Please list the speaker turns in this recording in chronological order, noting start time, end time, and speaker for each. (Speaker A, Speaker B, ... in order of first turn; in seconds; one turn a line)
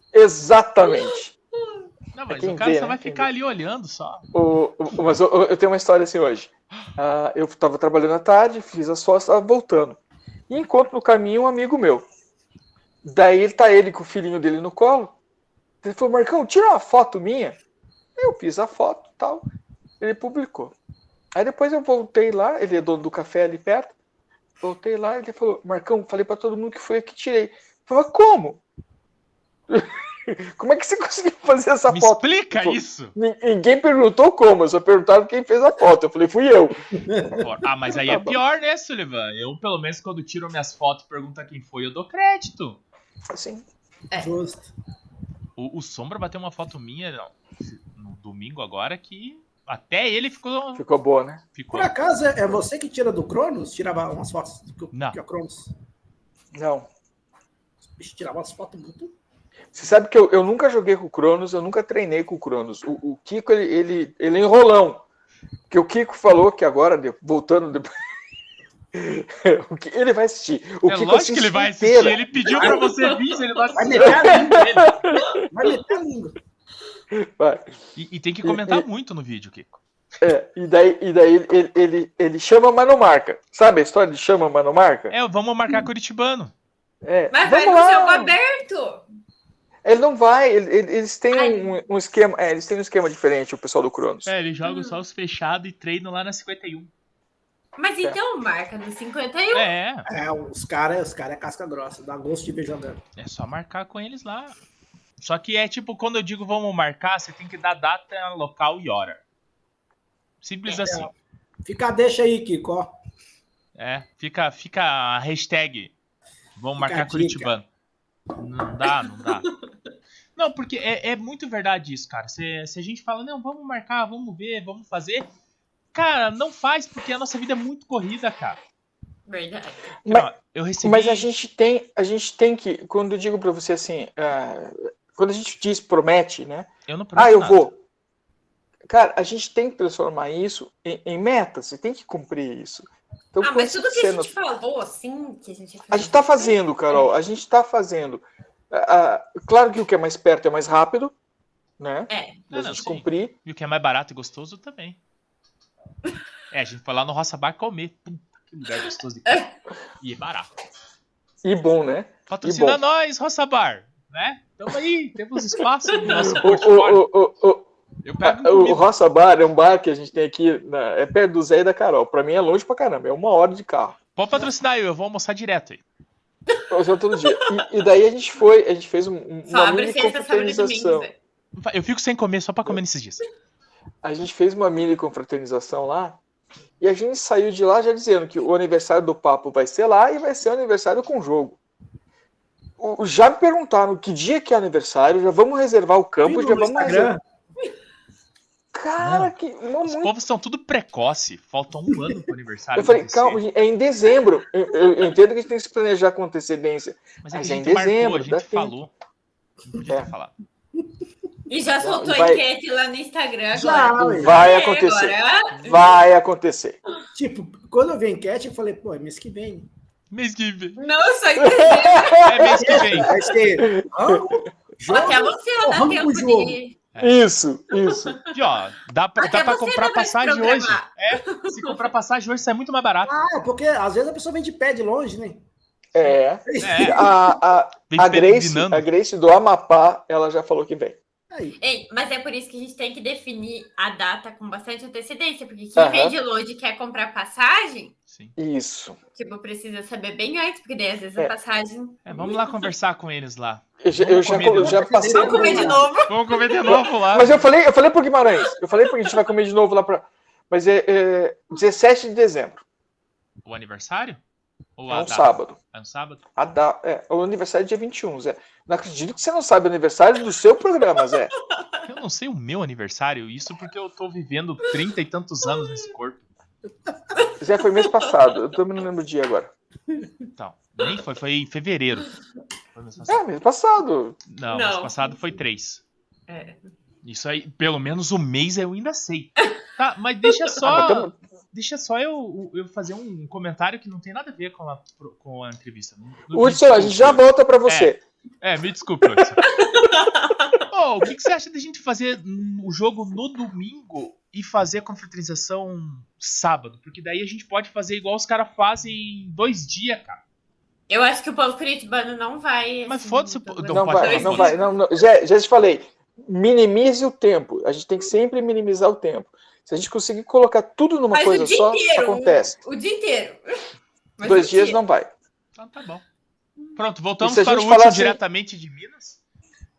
Speaker A: 0.1-1.3
Speaker B: 0.8-1.8
Speaker C: 2.1-4.3
Speaker A: 2.3-3.3
Speaker A: 4.3-12.1
Speaker A: 13.0-15.1
Speaker A: 15.8-17.6
Speaker A: 18.2-19.4
Speaker A: 20.0-20.7
Speaker A: 21.3-23.9
Speaker A: 24.6-28.6
Speaker A: 29.7-36.8
Speaker C: 31.9-33.1
Speaker D: 37.0-37.5
Speaker C: 37.4-42.8
Speaker A: 37.9-38.4
Speaker A: 43.3-43.6
Speaker D: 44.1-44.7
Speaker C: 45.6-50.8
Speaker A: 50.8-51.4
Speaker C: 51.5-51.9
Speaker D: 51.7-55.7
Speaker C: 54.9-55.2
Speaker A: 56.5-56.9
Speaker D: 58.0-59.1
Speaker A: 59.7-65.0
Speaker A: 65.7-67.9
Speaker A: 68.9-72.7
Speaker C: 70.9-75.1
Speaker D: 72.4-72.8
Speaker B: 72.7-73.2
Speaker D: 73.7-74.9
Speaker A: 74.0-75.4
Speaker D: 75.5-76.4
Speaker A: 77.1-77.7
Speaker C: 78.0-79.8
Speaker A: 78.4-78.8
Speaker A: 80.2-85.1
Speaker C: 85.1-86.5
Speaker A: 87.0-88.4
Speaker B: 87.3-89.0
Speaker A: 89.8-94.3
Speaker B: 91.3-91.7
Speaker C: 94.2-96.9
Speaker B: 94.6-95.0
Speaker B: 97.8-99.7
Speaker C: 99.5-100.1
Speaker D: 100.1-103.0
Speaker C: 103.2-104.6
Speaker C: 105.2-109.2
Speaker C: 110.4-111.1
Speaker D: 110.8-111.1
Speaker D: 111.6-112.9
Speaker C: 113.8-115.9
Speaker C: 116.5-117.7
Speaker D: 116.8-117.5
Speaker C: 118.4-119.5
Speaker C: 120.3-125.2
Speaker C: 125.9-128.6
Speaker B: 129.3-129.9
Speaker A: 130.0-130.3
Speaker C: 130.1-131.3
Speaker A: 130.8-137.7
Speaker C: 136.9-137.7
Speaker A: 138.9-144.3
Speaker B: 143.4-147.1
Speaker A: 145.9-151.1
Speaker A: 151.8-153.3
Speaker B: 152.1-152.4
Speaker C: 152.5-155.0
Speaker C: 156.5-159.4
Speaker B: 159.2-159.5
Speaker C: 160.0-160.5
Speaker A: 161.4-162.8
Speaker C: 162.3-167.1
Speaker A: 166.0-167.7
Speaker C: 168.0-168.8
Speaker A: 168.2-174.0
Speaker C: 174.2-175.8
Speaker B: 176.5-177.7
Speaker A: 176.7-181.1
Speaker B: 179.5-181.1
Speaker C: 181.6-183.2
Speaker A: 184.0-186.2
Speaker A: 186.8-191.6
Speaker A: 192.8-197.1
Speaker D: 196.2-197.2
Speaker A: 198.7-200.1
Speaker C: 199.0-203.4
Speaker A: 202.8-208.7
Speaker C: 207.2-208.9
Speaker C: 209.7-210.3
Speaker B: 211.5-215.9
Speaker A: 211.8-212.4
Speaker D: 213.5-214.4
Speaker A: 214.0-216.8
Speaker C: 215.5-215.8
Speaker D: 217.1-219.7
Speaker C: 220.1-220.8
Speaker B: 220.8-222.4
Speaker A: 221.3-223.0
Speaker C: 222.2-223.1
Speaker D: 222.6-226.6
Speaker A: 223.6-224.4
Speaker B: 224.9-226.7
Speaker A: 227.0-228.2
Speaker B: 227.7-228.4
Speaker C: 228.3-233.1
Speaker B: 229.2-231.8
Speaker D: 233.1-235.4
Speaker A: 235.9-241.0
Speaker D: 236.5-237.1
Speaker C: 236.6-237.0
Speaker C: 237.9-238.8
Speaker D: 241.3-241.6
Speaker B: 241.6-247.9
Speaker A: 245.8-246.2
Speaker C: 248.1-248.4
Speaker A: 248.4-249.0
Speaker B: 249.1-252.5
Speaker C: 252.1-254.8
Speaker A: 253.8-255.9
Speaker D: 254.3-255.9
Speaker B: 255.0-256.6
Speaker C: 256.1-257.5
Speaker A: 256.6-262.6
Speaker B: 258.4-259.2
Speaker C: 263.4-264.2
Speaker C: 264.8-266.2
Speaker A: 264.9-265.6
Speaker A: 266.4-271.3
Speaker B: 271.5-271.8
Speaker C: 271.8-276.3
Speaker B: 277.1-278.2
Speaker A: 277.4-279.5
Speaker C: 280.4-282.1
Speaker C: 282.7-283.2
Speaker A: 283.1-284.2
Speaker C: 284.3-285.8
Speaker B: 284.5-285.2
Speaker B: 286.3-286.6
Speaker C: 287.0-299.5
Speaker A: 290.6-291.1
Speaker A: 296.3-298.0
Speaker B: 299.5-300.6
Speaker C: 300.7-310.2
Speaker B: 310.9-314.7
Speaker C: 312.9-314.5
Speaker A: 313.7-322.6
Speaker B: 321.1-323.6
Speaker B: 324.2-324.8
Speaker A: 324.2-325.1
Speaker C: 325.6-326.0
Speaker C: 326.8-329.2
Speaker A: 327.2-328.2